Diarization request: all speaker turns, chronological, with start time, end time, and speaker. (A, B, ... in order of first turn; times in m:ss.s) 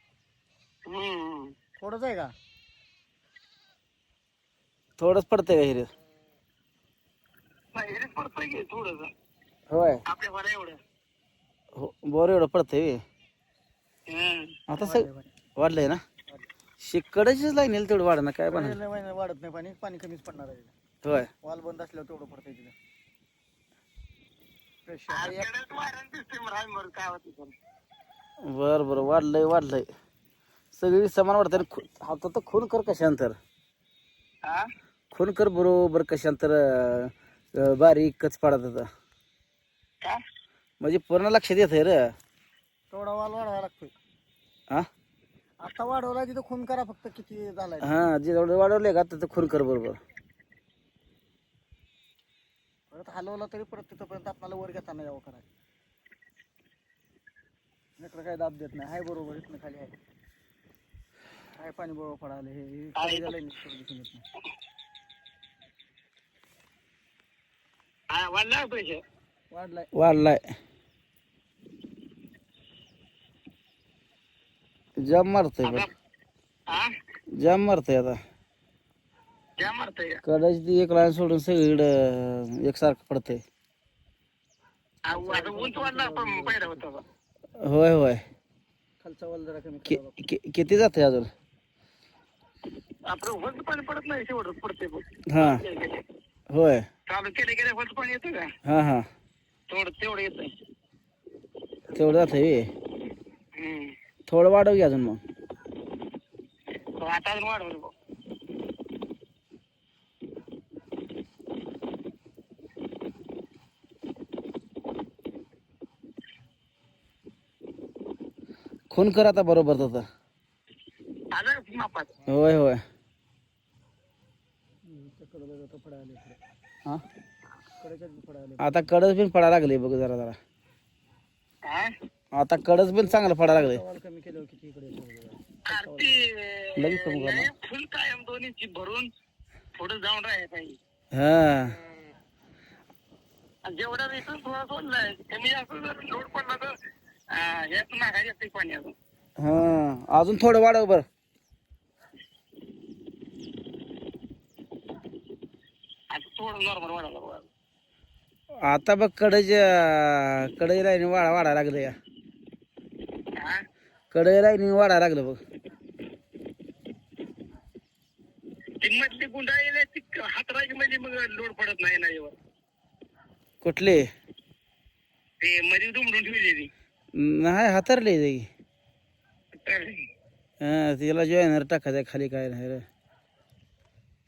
0:00.8-0:01.5 A
0:01.8-0:02.3 B
0:05.0-0:05.9 C
0:07.7-0:09.1 A
0:09.7-0:10.0 C
0:10.1-0:10.8 A
0:11.7-0:13.0 C
0:14.1-0:14.6 A
0:14.7-0:15.0 C
0:14.8-0:15.3 B
0:15.6-0:16.0 C
0:16.8-0:18.8 C
0:18.5-0:20.7 B
0:21.0-0:21.3 C
0:21.4-0:22.7 B
0:24.8-0:25.5 B
0:25.1-0:27.5 A
0:28.4-0:29.9 C
0:30.7-0:33.3 C
0:35.1-0:38.8 C
0:40.8-0:42.1 C
0:42.9-0:43.9 B
0:45.6-0:47.9 B
0:47.8-0:50.0 C
0:52.9-0:55.4 B
0:58.0-1:00.0 B
1:01.6-1:04.2 B
1:03.0-1:03.3 A
1:08.1-1:09.0 A
1:09.5-1:09.9 B
1:09.9-1:10.4 C
1:15.0-1:15.9 C
1:15.6-1:15.9 A
1:17.4-1:18.2 C
1:19.6-1:20.2 A
1:20.2-1:23.4 C
1:25.0-1:27.0 A
1:25.1-1:26.8 B
1:27.6-1:28.2 C
1:29.0-1:30.2 B
1:29.9-1:31.3 C
1:33.1-1:36.0 A
1:35.3-1:35.6 C
1:36.5-1:36.8 C
1:37.1-1:38.5 A
1:38.6-1:39.1 C
1:39.7-1:40.5 A
1:41.9-1:42.7 C
1:43.5-1:43.9 A
1:44.3-1:45.2 C
1:47.0-1:47.9 A
1:58.9-2:00.0 C
2:01.3-2:02.1 A
2:02.3-2:02.8 C
2:04.8-2:06.4 B
2:07.8-2:08.7 B
2:08.6-2:10.4 C
2:11.6-2:11.9 A
2:12.3-2:13.8 C
2:13.0-2:16.2 B
2:15.6-2:19.1 A
2:16.8-2:17.5 C
2:19.8-2:20.8 A
2:21.1-2:21.8 C
2:23.6-2:26.7 A
2:27.3-2:28.9 A
2:29.4-2:31.0 C
2:36.1-2:37.5 A
2:38.6-2:41.9 C
2:43.4-2:43.6 A
2:44.1-2:45.4 C
2:48.8-2:52.4 A
2:53.6-2:54.1 C
2:55.4-2:56.7 A
2:57.2-2:58.5 C
2:59.6-3:00.0 A
3:00.6-3:02.8 C